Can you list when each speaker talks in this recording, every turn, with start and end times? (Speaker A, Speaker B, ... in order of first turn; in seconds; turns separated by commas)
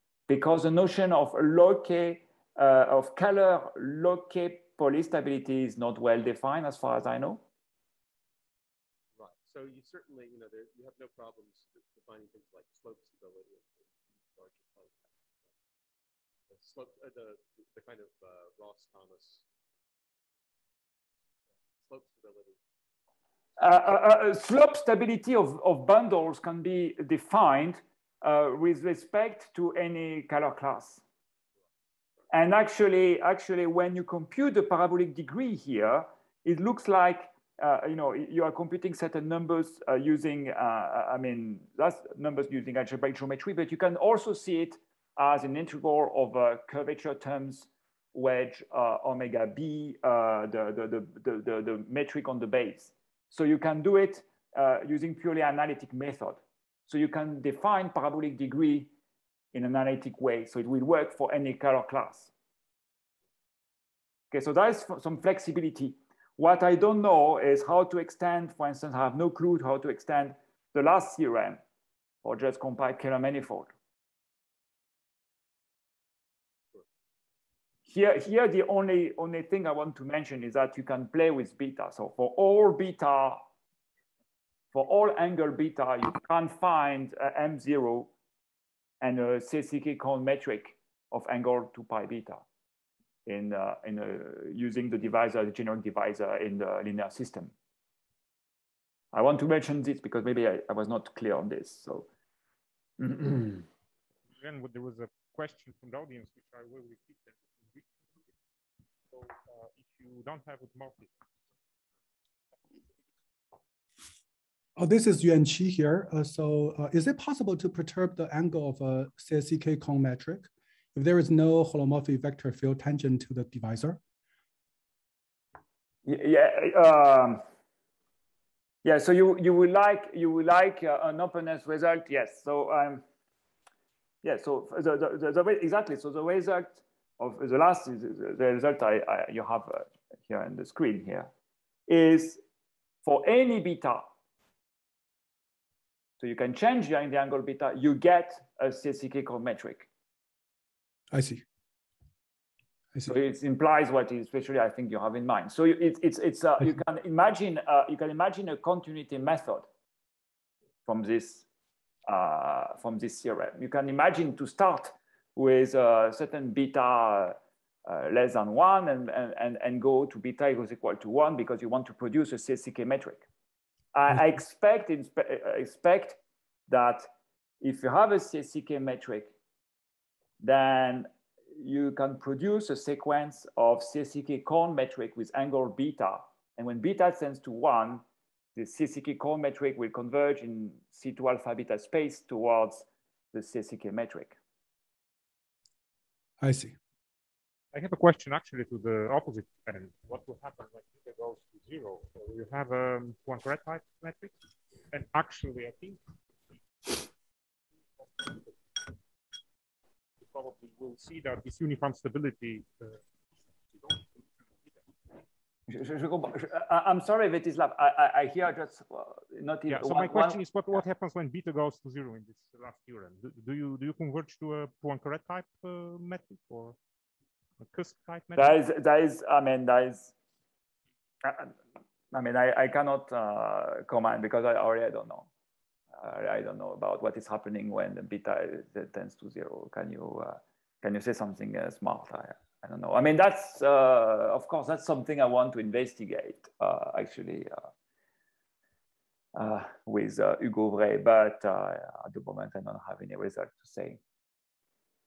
Speaker A: 0.3-7.4, Speaker B: 9.2-15.2, Speaker B: 16.5-19.4, Speaker B: 21.8-22.6, Speaker A: 23.6-31.0, Speaker A: 32.3-58.9, Speaker A: 59.5-62.3, Speaker A: 64.3-71.6, Speaker A: 72.2-73.7, Speaker A: 77.9-83.4, Speaker A: 84.7-88.1, Speaker A: 89.0-92.4, Speaker A: 93.3-97.5, Speaker A: 99.1-102.1, Speaker A: 103.0-103.6, Speaker C: 104.4-108.0, Speaker C: 109.1-111.2, Speaker D: 114.8-124.0, Speaker A: 126.0-127.4, Speaker A: 128.8-133.0, Speaker A: 134.2-141.3, Speaker A: 141.9-142.4, Speaker A: 143.0-144.1, Speaker A: 146.2-149.9, Speaker D: 151.1-151.4, Speaker A: 153.0-159.7, Speaker A: 160.9-161.4, Speaker A: 162.1-173.3, Speaker A: 173.9-177.1, Speaker A: 177.6-179.3, Speaker A: 180.4-188.0, Speaker A: 188.6-194.3, Speaker D: 196.4-196.7, Speaker C: 197.7-204.3, Speaker C: 204.9-206.0, Speaker C: 208.1-208.6, Speaker C: 210.2-213.0, Speaker C: 213.7-214.7, Speaker A: 215.7-220.8, Speaker C: 219.7-226.8, Speaker C: 227.6-228.6, Speaker A: 228.4-230.1, Speaker A: 231.2-231.6, Speaker A: 232.1-235.3, Speaker A: 235.9-247.7, Speaker A: 249.3-254.0